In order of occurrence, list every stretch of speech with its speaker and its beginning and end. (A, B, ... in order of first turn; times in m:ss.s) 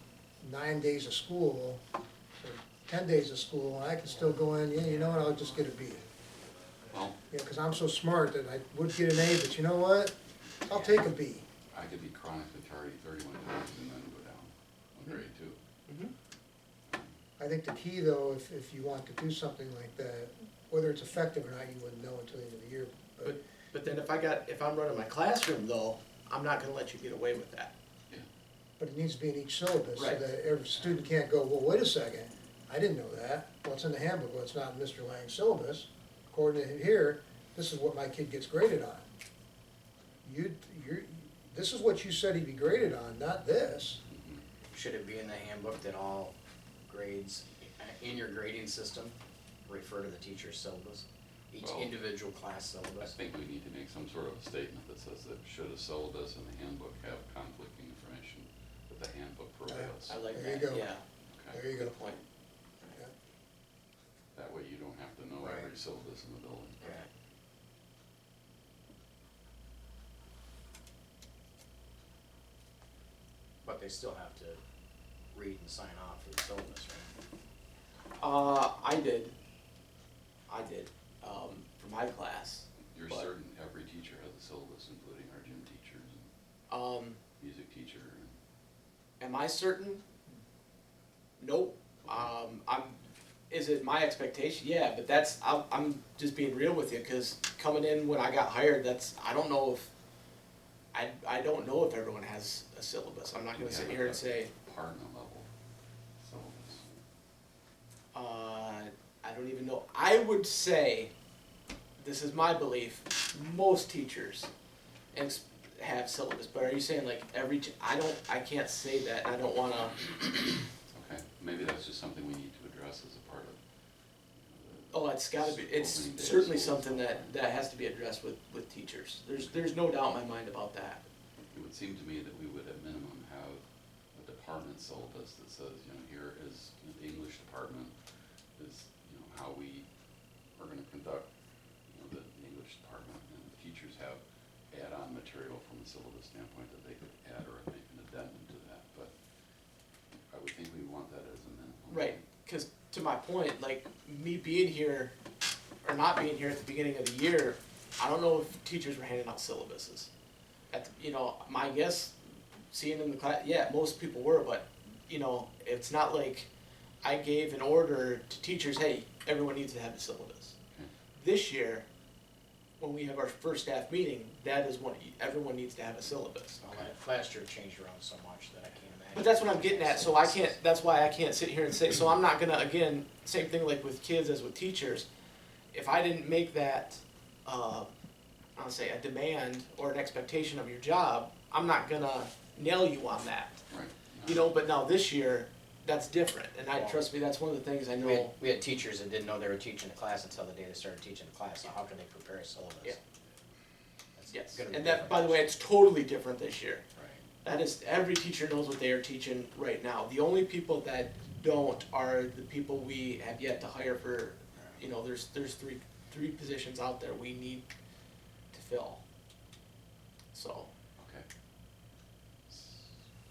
0:00.4-0:01.8 A
0:02.4-0:06.0 A
0:06.9-0:07.2 B
0:07.3-0:10.2 A
0:10.7-0:11.5 A
0:11.7-0:15.6 B
0:16.9-0:17.2 B
0:17.4-0:23.4 A
0:23.2-0:27.7 C
0:28.8-0:39.1 A
0:30.0-0:30.3 C
0:40.2-0:44.0 A
0:44.1-0:44.4 B
0:44.7-0:46.3 D
0:46.9-0:53.2 D
0:51.6-0:52.0 B
0:53.0-1:00.2 B
0:59.7-1:00.9 A
1:00.1-1:01.0 C
1:01.3-1:01.7 B
1:01.5-1:02.0 A
1:01.8-1:02.2 C
1:04.3-1:07.0 B
1:05.4-1:05.7 D
1:06.8-1:07.1 D
1:13.6-1:14.6 D
1:15.3-1:17.1 D
1:18.2-1:19.3 C
1:20.5-1:23.3 C
1:22.9-1:26.3 B
1:26.7-1:27.2 C
1:27.4-1:28.4 B
1:29.2-1:30.0 C
1:31.4-1:33.0 C
1:33.5-1:39.9 C
1:40.9-1:44.5 C
1:43.5-1:45.5 B
1:46.2-1:46.8 B
1:48.1-1:51.1 C
1:52.0-1:54.5 C
1:55.1-2:00.0 C
2:00.9-2:03.6 B
2:04.4-2:07.4 B
2:04.9-2:11.0 C
2:11.5-2:18.0 B
2:18.6-2:19.9 B
2:20.6-2:21.3 B
2:21.9-2:29.1 B
2:30.3-2:32.2 B
2:31.9-2:35.1 C
2:35.8-2:40.1 C
2:40.7-2:42.2 C
2:42.7-2:46.5 C
2:47.0-2:50.6 C
2:51.2-2:51.9 C
2:52.8-2:56.6 C
2:56.6-3:00.6 D
2:56.7-2:56.9 B
2:59.2-3:05.1 C
3:05.7-3:07.9 C
3:08.6-3:13.6 C
3:13.7-3:14.5 B
3:14.2-3:18.3 C
3:16.7-3:17.1 D
3:18.0-3:23.0 D
3:24.2-3:25.5 D
3:24.3-3:26.8 C
3:26.9-3:27.2 D
3:27.4-3:37.7 C
3:38.5-3:39.0 C
3:40.3-3:40.7 C
3:41.0-3:41.2 B
3:42.5-3:43.0 B